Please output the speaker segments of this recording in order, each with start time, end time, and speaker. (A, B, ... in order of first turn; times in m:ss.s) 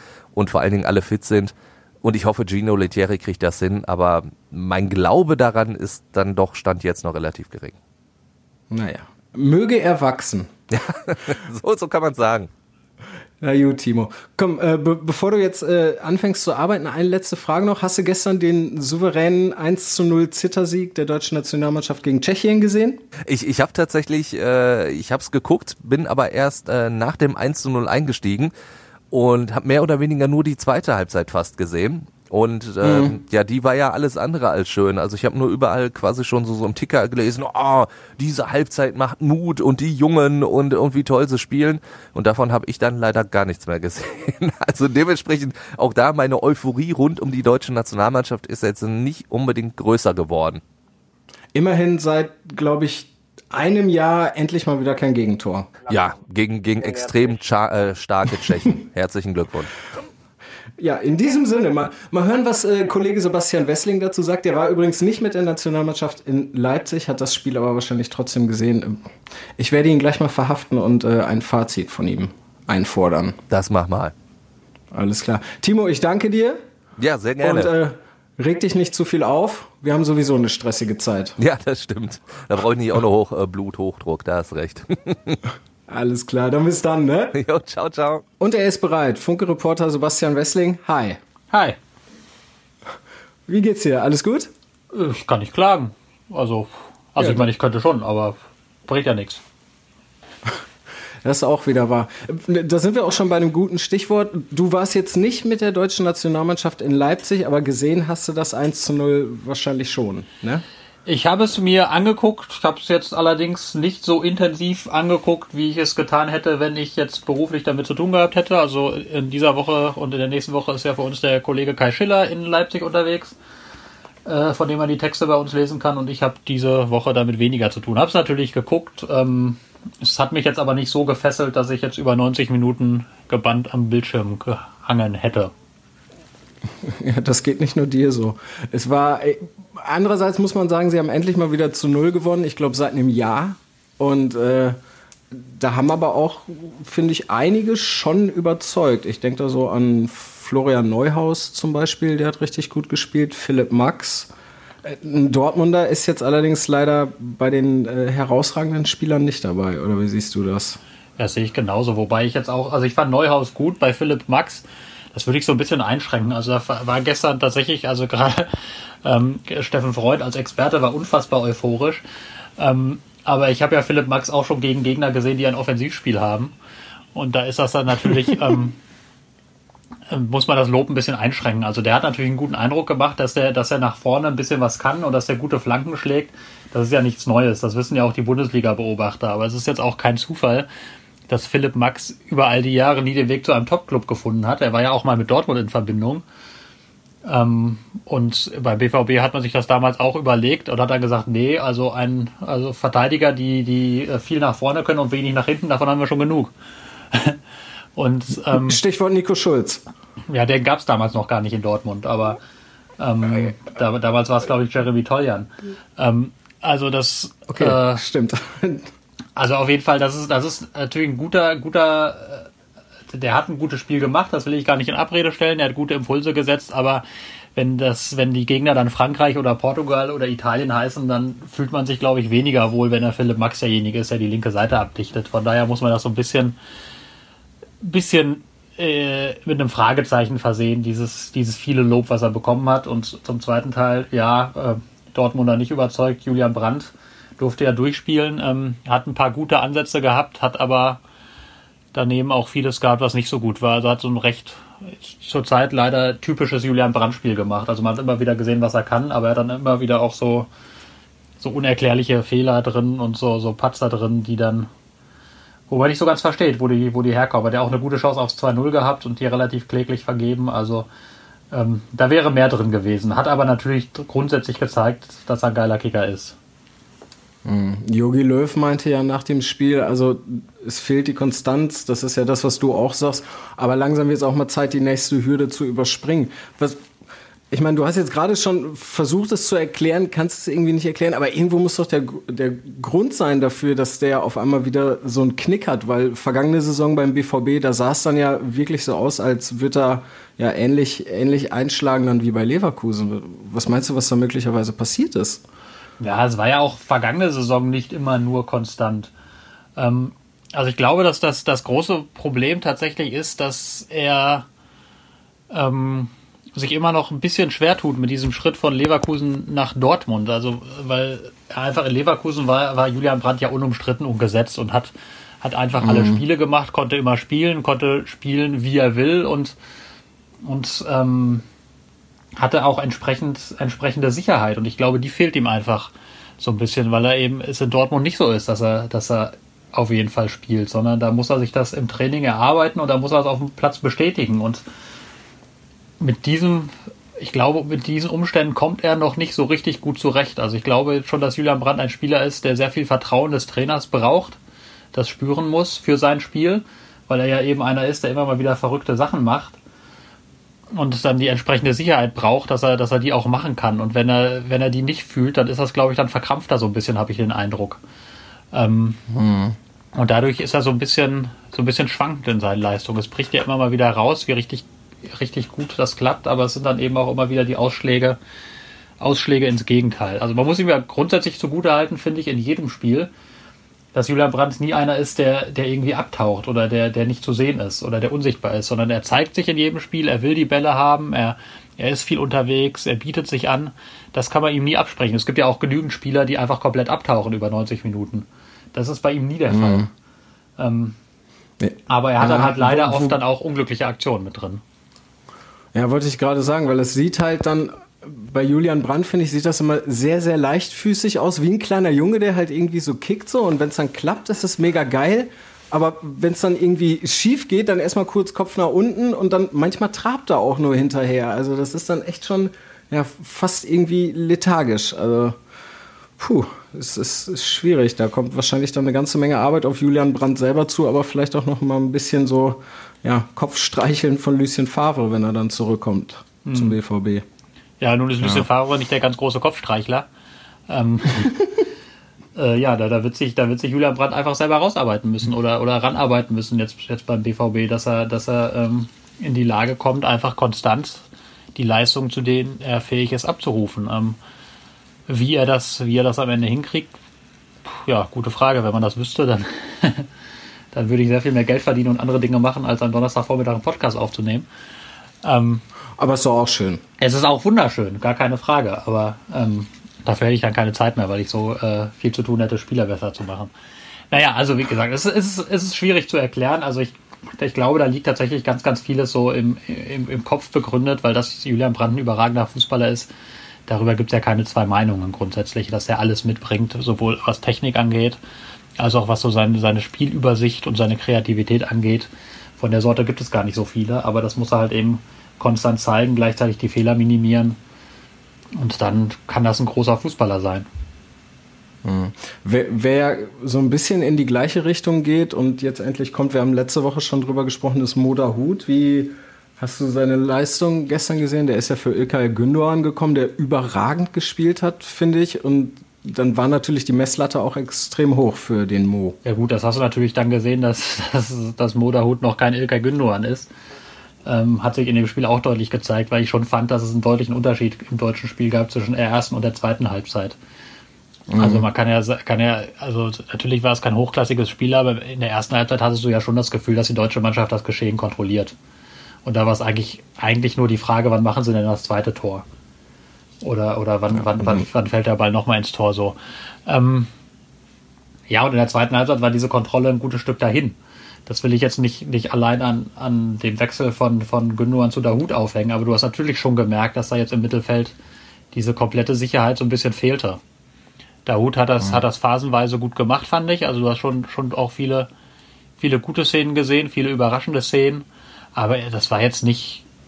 0:00.3-0:07.8 A
0:08.7-0:10.5 B
0:10.7-0:12.5 A
0:13.4-0:23.0 B
0:23.3-0:28.5 A
0:29.1-0:50.6 A
0:32.8-0:33.1 B
0:51.5-0:55.7 B
0:55.9-0:59.7 A
1:00.8-1:09.1 B
1:09.6-1:13.4 B
1:13.5-1:14.1 A
1:14.9-1:16.6 B
1:17.0-1:17.7 A
1:17.4-1:21.4 B
1:21.4-1:25.4 A
1:25.9-1:27.4 B
1:27.3-1:28.2 A
1:28.4-1:31.2 B
1:31.5-1:31.8 C
1:33.5-1:34.5 B
1:34.9-1:38.4 C
1:37.2-1:37.4 B
1:38.9-1:39.4 C
1:41.2-1:50.6 B
1:51.0-2:03.3 C
2:04.2-2:15.5 C
2:16.8-2:24.8 B
2:25.3-2:34.3 B
2:34.8-2:40.8 B
2:41.2-2:48.5 C
2:49.0-2:52.0 C
2:52.6-2:56.5 C
2:57.1-2:58.8 C
3:00.1-3:10.7 C
3:11.3-3:16.2 C
3:17.2-3:26.5 C
3:27.1-3:27.4 C
3:28.0-3:28.8 C
3:28.5-3:29.8 B
3:30.3-3:32.4 C
3:33.0-3:38.0 C
3:37.5-3:38.9 B
3:39.4-3:42.5 C
3:43.1-3:47.0 C
3:47.5-3:56.6 C
3:57.8-4:11.0 C
4:11.9-4:20.5 C
4:21.4-4:24.7 C
4:25.7-4:30.9 C
4:31.5-4:36.3 C
4:37.4-4:46.8 B
4:47.5-5:05.4 B
5:06.0-5:09.1 C
5:09.8-5:14.4 C
5:15.5-5:29.5 C
5:25.8-5:26.2 B
5:30.4-5:31.4 C
5:32.4-5:44.6 C
5:46.0-5:54.4 C
5:54.9-5:59.6 C
6:00.7-6:07.8 C
6:08.5-6:09.0 C
6:09.1-6:09.6 B
6:09.9-6:18.2 C
6:19.0-6:23.1 C
6:23.9-6:39.9 C
6:39.5-6:39.9 B
6:40.6-6:41.0 C
6:41.6-6:43.2 B
6:41.9-6:44.6 C
6:45.7-7:05.4 B
7:06.2-7:17.2 B
7:16.4-7:16.8 C
7:17.8-7:20.1 C
7:20.7-7:21.4 C
7:22.3-7:31.0 C
7:31.5-7:34.2 C
7:35.1-7:36.9 C
7:37.6-7:40.1 C
7:40.7-7:44.4 C
7:45.2-7:45.6 C
7:46.0-7:46.8 B
7:47.0-7:53.5 C
7:54.1-8:03.1 C
8:03.7-8:08.2 C
8:08.8-8:17.6 C
8:18.5-8:20.6 C
8:21.8-8:39.2 B
8:39.2-8:43.5 C
8:44.2-8:50.4 C
8:51.3-8:51.6 B
8:51.4-8:58.5 C
8:59.2-9:02.4 C
9:03.4-9:07.1 C
9:04.1-9:04.7 B
9:08.3-9:10.8 C
9:11.3-9:17.9 C
9:18.5-9:20.4 C
9:21.2-9:25.1 C
9:25.8-9:29.8 C